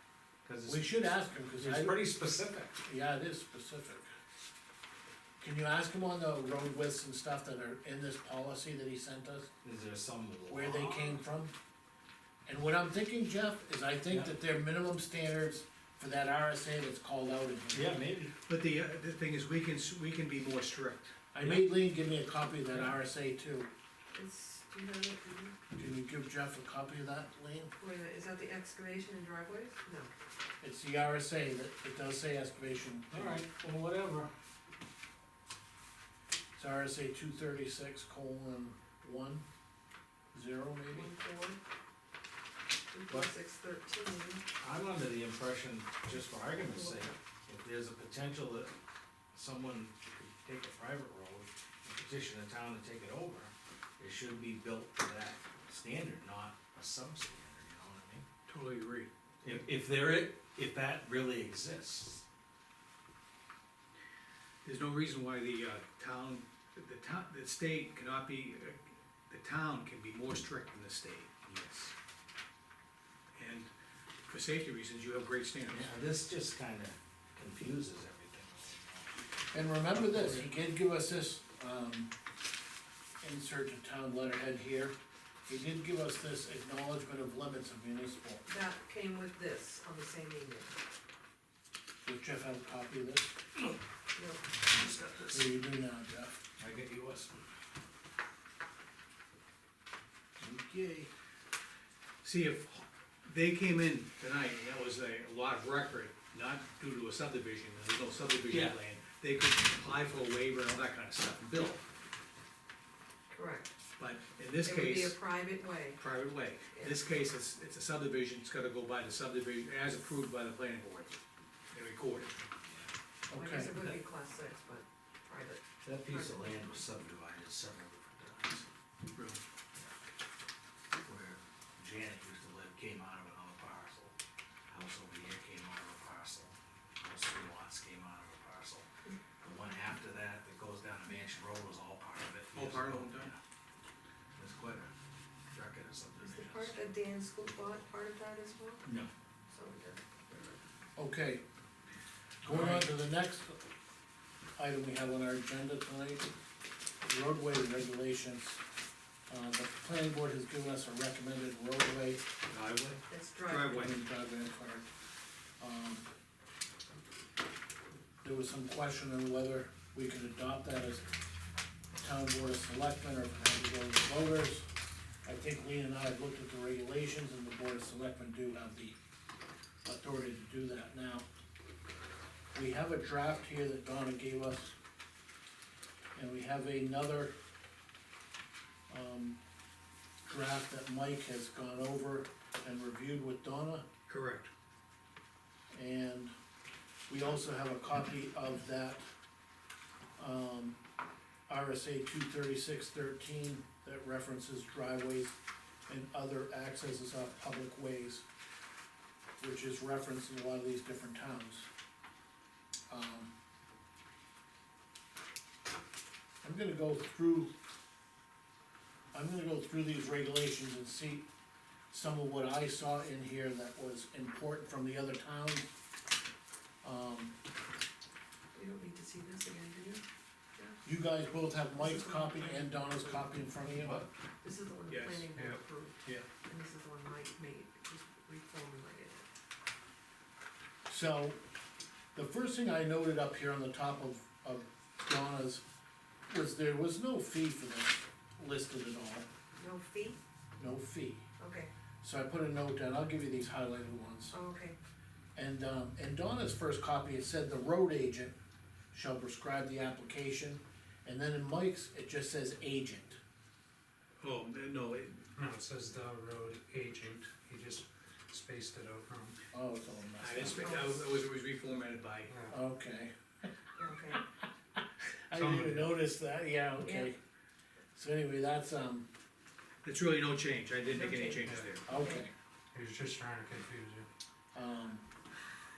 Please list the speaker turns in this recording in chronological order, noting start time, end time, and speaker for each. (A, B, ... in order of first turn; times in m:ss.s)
0:00.4-0:01.0 A
0:00.7-0:02.0 B
0:01.6-0:02.8 A
0:02.8-0:04.1 B
0:05.4-0:09.5 B
0:09.6-0:11.2 A
0:10.5-0:11.5 B
0:12.4-0:18.0 B
0:17.7-0:18.3 A
0:18.4-0:21.2 C
0:21.3-0:23.7 B
0:24.1-0:25.6 D
0:25.7-0:27.7 B
0:27.8-0:30.1 D
0:30.6-0:34.3 B
0:33.1-0:33.5 A
0:36.6-0:39.4 B
0:40.3-0:41.1 B
0:40.9-0:41.6 D
0:42.9-0:44.4 D
0:44.6-0:48.7 A
0:46.6-0:47.1 D
0:49.3-0:58.2 A
0:58.5-0:59.6 C
0:59.4-1:02.2 A
1:04.6-1:11.4 C
1:11.4-1:11.9 A
1:13.3-1:13.7 C
1:14.3-1:15.9 C
1:15.7-1:19.3 A
1:19.5-1:22.1 B
1:19.9-1:20.5 A
1:23.2-1:24.9 B
1:25.5-1:28.4 B
1:28.4-1:30.8 D
1:32.0-1:33.3 B
1:34.1-1:34.4 D
1:34.6-1:35.5 A
1:35.3-1:36.3 B
1:36.6-1:37.4 A
1:40.4-1:41.1 A
1:42.2-1:51.8 C
1:48.5-1:48.8 A
1:53.3-1:53.7 D
1:54.0-1:55.2 C
1:54.6-1:56.0 D
1:56.0-2:02.3 C
1:56.7-1:57.0 D
2:02.6-2:02.9 A
2:03.3-2:03.7 B
2:03.3-2:06.4 D
2:05.8-2:08.7 A
2:09.1-2:09.4 C
2:11.0-2:14.1 A
2:14.7-2:18.9 A
2:19.4-2:23.4 A
2:22.5-2:23.3 C
2:24.4-2:24.9 A
2:25.5-2:26.8 A
2:26.2-2:28.8 D
2:28.8-2:29.1 A
2:29.5-2:30.6 D
2:31.0-2:31.4 B
2:32.4-2:33.6 B
2:32.5-2:32.8 C
2:34.6-2:36.2 B
2:37.0-2:38.6 B
2:39.3-2:42.2 B
2:42.5-2:43.0 A
2:43.1-2:43.8 D
2:43.5-2:44.0 C
2:43.7-2:44.8 B
2:45.6-2:46.0 B
2:48.2-2:51.1 B
2:52.0-2:54.6 B
2:55.2-2:59.0 B
2:59.8-3:01.2 B
3:02.5-3:04.7 B
3:06.1-3:07.3 B
3:08.9-3:09.4 B
3:10.3-3:13.8 B
3:14.1-3:14.5 C
3:15.7-3:16.3 B
3:17.1-3:19.0 B
3:20.2-3:20.8 B
3:21.5-3:28.2 B
3:29.4-3:31.7 B
3:32.9-3:33.3 B
3:36.4-3:37.5 B
3:39.1-3:41.3 B
3:41.9-3:45.7 B
3:46.8-3:47.3 B
3:48.5-3:50.0 D
3:50.8-3:54.1 B
3:51.7-3:53.3 D
3:54.4-3:59.3 D
3:54.9-3:55.3 C
3:55.3-3:55.6 E
4:00.8-4:01.4 B
4:02.1-4:05.6 B
4:06.3-4:09.2 B
4:09.6-4:10.2 D
4:10.6-4:11.2 B
4:11.4-4:11.7 D
4:12.0-4:14.3 B
4:14.3-4:14.8 D
4:15.3-4:18.3 B
4:18.9-4:23.2 B
4:24.2-4:25.3 C
4:25.3-4:29.4 E
4:29.5-4:30.7 B
4:30.2-4:32.4 C
4:30.6-4:31.0 D
4:32.3-4:32.5 E
4:32.5-4:33.1 B
4:33.8-4:34.2 D
4:35.3-4:37.2 B
4:35.3-4:35.9 C
4:36.8-4:37.1 D
4:37.9-4:39.1 B
4:39.8-4:41.8 C
4:40.8-4:42.2 D
4:41.4-4:41.8 E
4:41.8-4:42.3 B
4:42.7-4:44.1 E
4:44.5-4:45.0 B